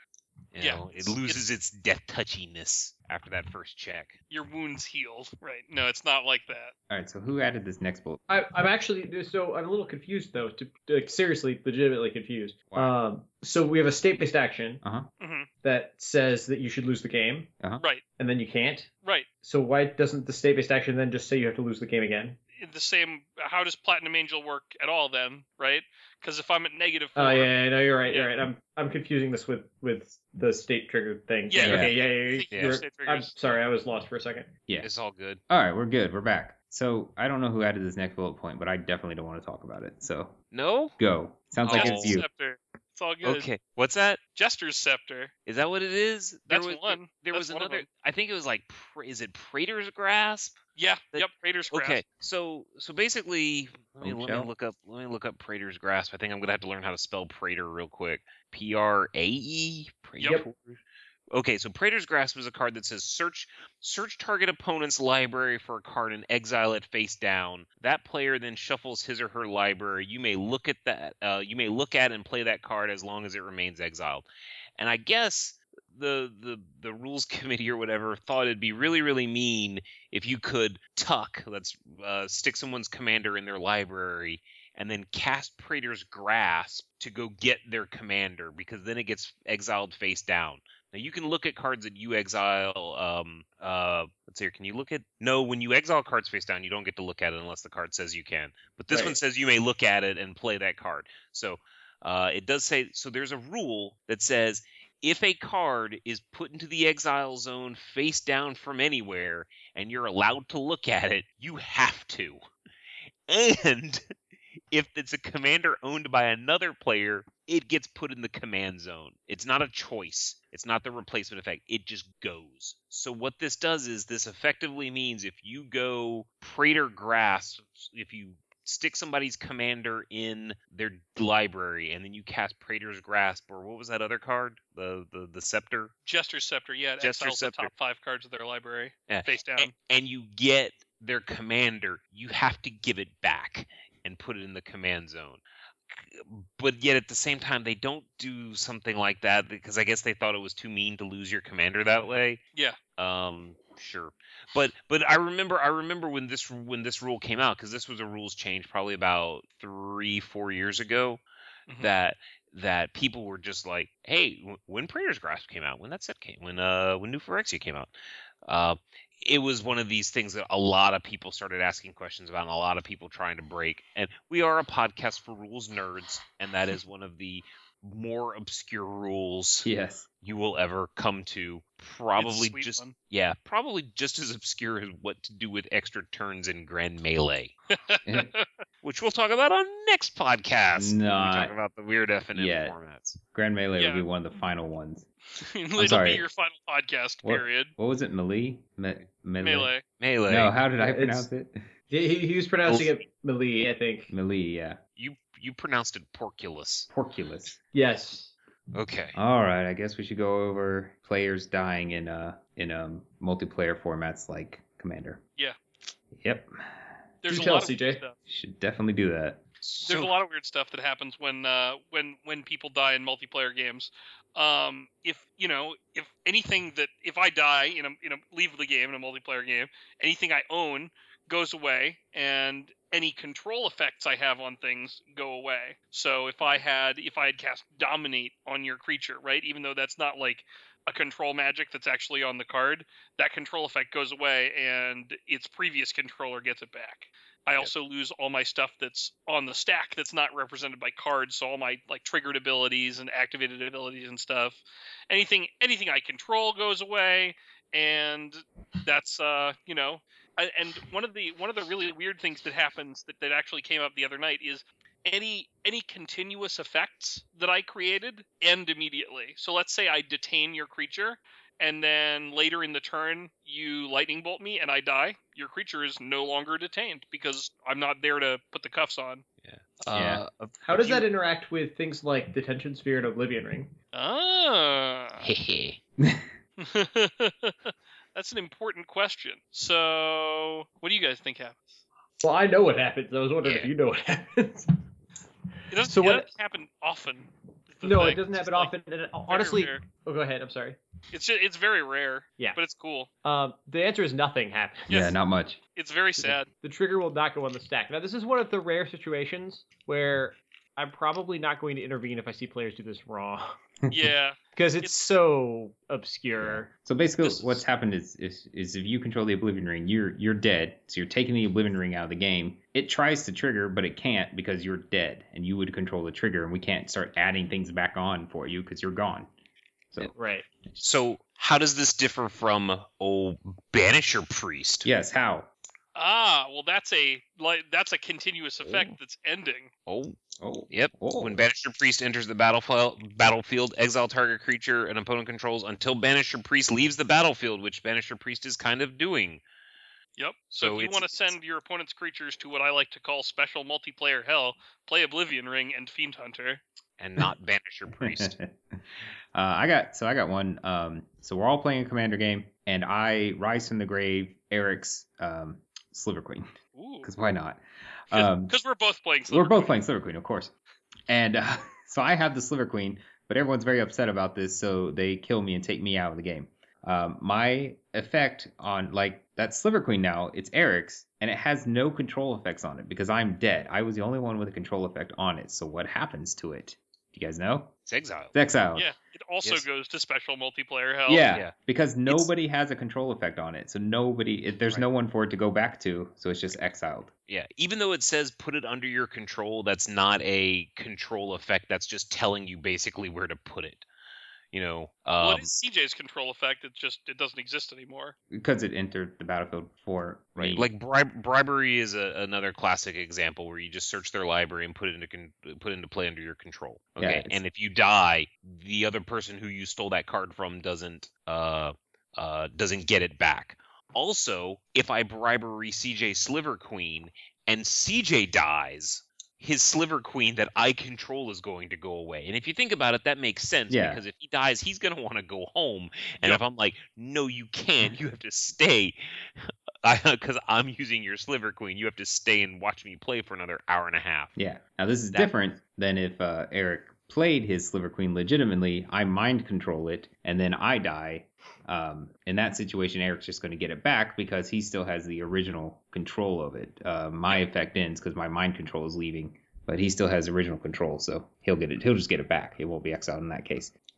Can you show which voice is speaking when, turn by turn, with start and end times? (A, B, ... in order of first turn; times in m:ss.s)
0:00.5-0:04.2 A
0:00.6-0:01.4 B
0:04.3-0:06.7 B
0:06.9-0:08.2 C
0:08.3-0:14.8 D
0:14.8-0:15.1 C
0:15.2-0:15.5 B
0:15.6-0:17.5 D
0:18.2-0:18.9 D
0:19.4-0:22.4 D
0:22.6-0:27.5 B
0:27.2-0:34.5 D
0:28.1-0:28.3 B
0:31.5-0:33.3 B
0:31.6-0:31.9 C
0:32.5-0:32.8 A
0:34.8-0:35.4 A
0:35.5-0:40.4 C
0:40.5-0:40.9 A
0:41.0-0:42.3 C
0:41.7-0:42.2 A
0:41.7-0:43.5 B
0:43.2-0:44.2 A
0:44.4-0:45.3 B
0:45.4-0:50.6 A
0:46.5-0:47.9 B
0:50.8-0:52.0 B
0:51.1-1:00.8 A
0:54.0-0:54.5 C
1:01.3-1:14.3 A
1:14.8-1:52.4 A
1:38.9-1:39.2 D
1:53.3-1:54.0 A
1:54.7-2:15.9 A
2:16.0-2:19.7 B
2:17.0-2:17.7 A
2:19.1-2:32.4 A
2:33.0-2:41.2 A
2:41.8-2:47.9 A
2:48.4-2:59.7 A
2:59.6-3:00.1 C
3:00.2-3:07.5 A
3:02.2-3:02.9 B
3:07.7-3:08.4 B
3:08.0-3:08.3 C
3:08.8-3:13.2 A
3:10.8-3:11.5 C
3:12.3-3:12.8 C
3:13.3-3:15.1 C
3:13.8-3:14.0 B
3:15.4-3:17.7 B
3:15.8-3:16.2 C
3:17.2-3:19.7 C
3:19.4-3:19.8 B
3:20.0-3:20.5 A
3:20.3-3:21.5 C
3:20.8-3:21.3 D
3:21.9-3:24.1 D
3:24.1-3:24.8 C
3:25.0-3:26.9 A
3:26.9-3:27.6 C
3:27.7-3:28.3 D
3:28.7-3:29.2 A
3:29.1-3:35.2 C
3:36.1-3:36.5 C
3:37.2-3:38.1 B
3:37.3-3:38.0 D
3:38.3-3:39.4 C
3:39.6-3:40.1 A
3:39.8-4:39.2 B
4:39.4-4:41.0 A
4:39.9-4:40.2 C
4:40.6-4:43.7 D
4:43.9-4:45.3 B
4:45.2-4:45.8 A
4:46.0-4:46.3 C
4:46.6-4:51.8 B
4:52.2-4:54.7 D
4:53.4-4:53.7 A
4:55.7-4:58.7 B
4:55.8-4:56.3 D
4:57.8-5:00.8 D
4:59.3-4:59.8 B
5:01.1-5:03.1 B
5:03.2-5:04.9 D
5:04.9-5:05.2 B
5:04.9-5:05.6 C
5:05.7-5:06.5 B
5:06.5-5:13.6 D
5:13.9-5:15.0 B
5:14.6-5:16.7 D
5:16.4-5:29.3 C
5:17.2-5:17.6 A
5:30.1-5:30.4 D
5:30.8-5:34.9 A
5:34.8-5:35.5 C
5:35.9-5:39.7 B
5:38.6-5:38.9 A
5:39.8-5:40.2 A
5:40.4-5:41.4 C
5:40.7-5:49.4 A
5:50.2-5:56.6 B
5:50.5-5:51.3 A
5:57.0-5:58.3 A
5:58.0-5:58.8 C
5:59.3-6:08.5 C
6:06.8-6:07.1 B
6:08.1-6:09.7 B
6:09.3-6:10.5 C
6:11.1-6:27.7 C
6:27.8-6:28.3 A
6:28.3-6:28.9 C
6:28.7-6:31.3 B
6:31.1-6:37.1 C
6:37.3-6:43.8 A
6:44.5-6:45.5 A
6:45.2-6:48.1 B
6:48.3-6:50.7 C
6:50.4-7:24.3 A
6:57.0-6:57.4 C
7:13.7-7:14.0 C
7:24.4-7:43.7 C